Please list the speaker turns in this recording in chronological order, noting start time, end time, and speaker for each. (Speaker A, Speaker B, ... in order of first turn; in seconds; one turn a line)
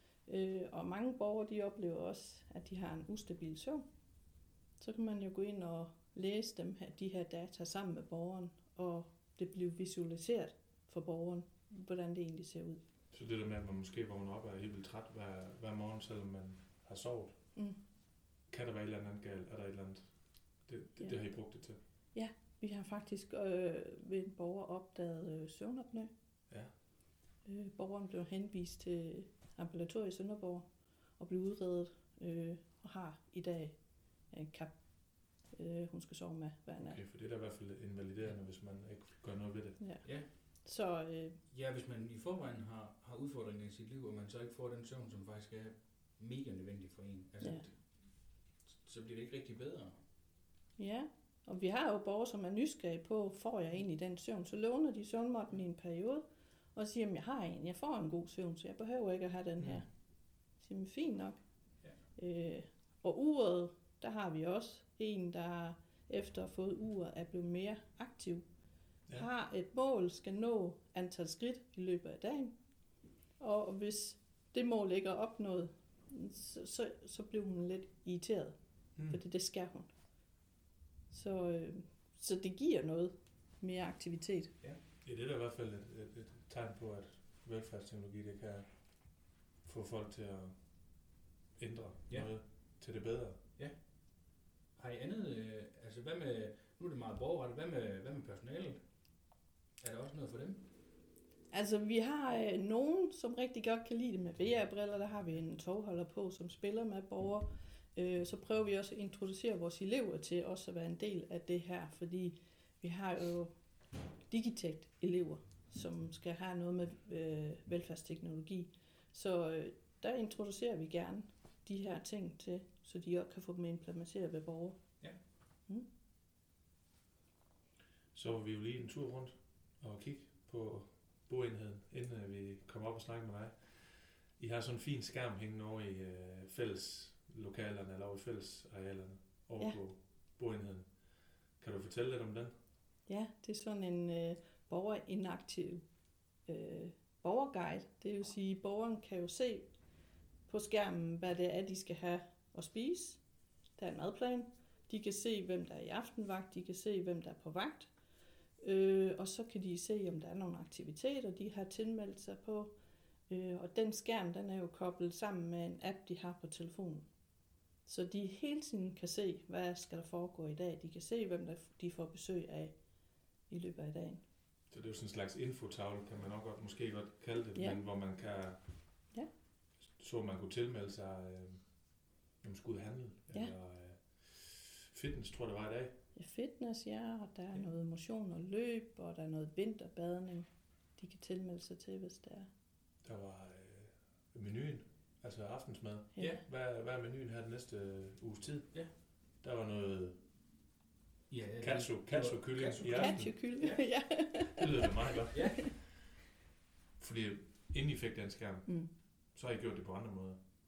Speaker A: 0.2-3.9
Speaker A: 4.8-12.8
Speaker B: 13.1-17.4
Speaker B: 18.5-21.8
Speaker A: 22.1-26.1
Speaker A: 27.4-37.0
Speaker B: 36.8-39.8
Speaker A: 39.8-41.4
Speaker C: 40.0-40.3
Speaker C: 41.5-50.0
Speaker A: 47.4-47.6
Speaker A: 50.8-61.4
Speaker A: 62.0-68.5
Speaker A: 69.1-72.6
Speaker A: 73.4-79.9
Speaker B: 79.0-79.2
Speaker A: 81.1-84.5
Speaker B: 85.0-93.4
Speaker C: 94.7-99.1
Speaker C: 99.8-100.7
Speaker A: 101.5-113.5
Speaker A: 114.3-125.0
Speaker B: 128.1-142.5
Speaker A: 143.1-145.8
Speaker A: 146.4-149.7
Speaker A: 150.5-153.2
Speaker A: 153.8-157.9
Speaker A: 158.6-162.7
Speaker A: 163.3-167.1
Speaker A: 167.8-172.9
Speaker A: 173.4-174.2
Speaker B: 174.7-178.7
Speaker A: 177.5-177.8
Speaker B: 179.8-186.0
Speaker A: 186.1-192.5
Speaker B: 193.0-200.2
Speaker A: 196.1-196.4
Speaker C: 201.3-203.9
Speaker B: 201.6-203.6
Speaker A: 202.9-204.9
Speaker B: 204.5-205.9
Speaker C: 205.3-205.7
Speaker B: 207.0-210.4